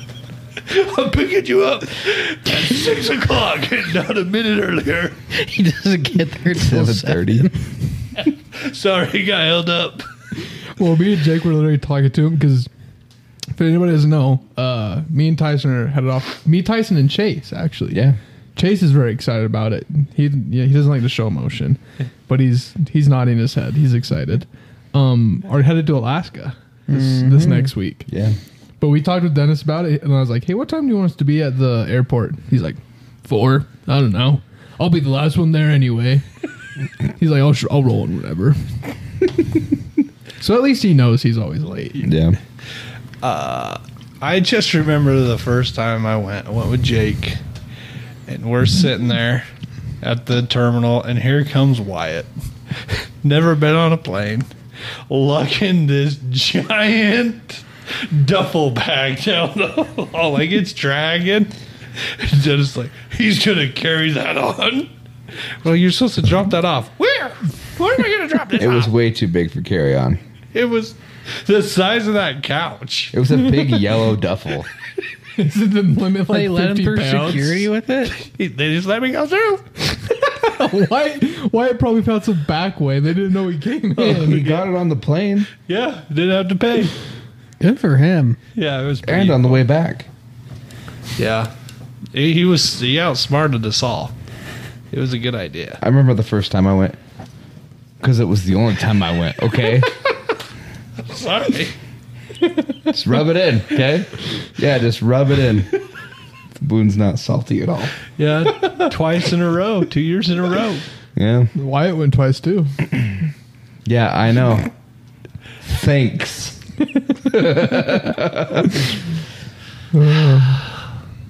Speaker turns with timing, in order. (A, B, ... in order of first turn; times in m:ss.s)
0:00.7-0:05.2 A
0:05.3-0:07.5 B
0:06.6-0:07.6 C
0:08.2-0:10.1 A
0:10.6-0:12.7 D
0:13.5-0:18.0 D
0:17.9-0:18.2 C
0:18.6-0:28.1 D
0:26.9-0:27.7 B
0:28.1-0:28.4 C
0:28.8-0:36.2 D
0:37.2-0:38.8 D
0:40.4-0:42.1 D
0:42.0-0:42.4 C
0:43.2-0:47.4 A
0:48.3-0:49.5 A
0:50.0-0:52.3 A
0:52.8-0:54.5 A
0:55.1-1:04.9 A
1:05.6-1:08.9 A
1:08.6-1:10.2 C
1:10.5-1:13.2 A
1:13.1-1:14.7 C
1:15.4-1:17.7 D
1:16.3-1:18.2 B
1:18.1-1:19.8 A
1:20.3-1:24.4 D
1:24.0-1:24.7 A
1:24.1-1:25.5 C
1:25.6-1:27.0 A
1:27.6-1:28.4 B
1:28.6-1:29.6 A
1:29.0-1:30.1 C
1:31.2-1:31.5 A
1:32.1-1:34.1 A
1:34.9-1:35.8 A
1:35.8-1:37.0 C
1:38.0-1:39.9 C
1:41.0-1:41.8 A
1:42.9-1:45.7 C
1:46.6-1:48.0 C
1:48.2-1:50.9 A
1:51.2-1:51.5 C
1:51.6-1:52.8 D
1:53.9-1:54.7 C
1:55.6-1:56.6 C
1:57.2-1:58.9 C
1:59.9-2:00.6 D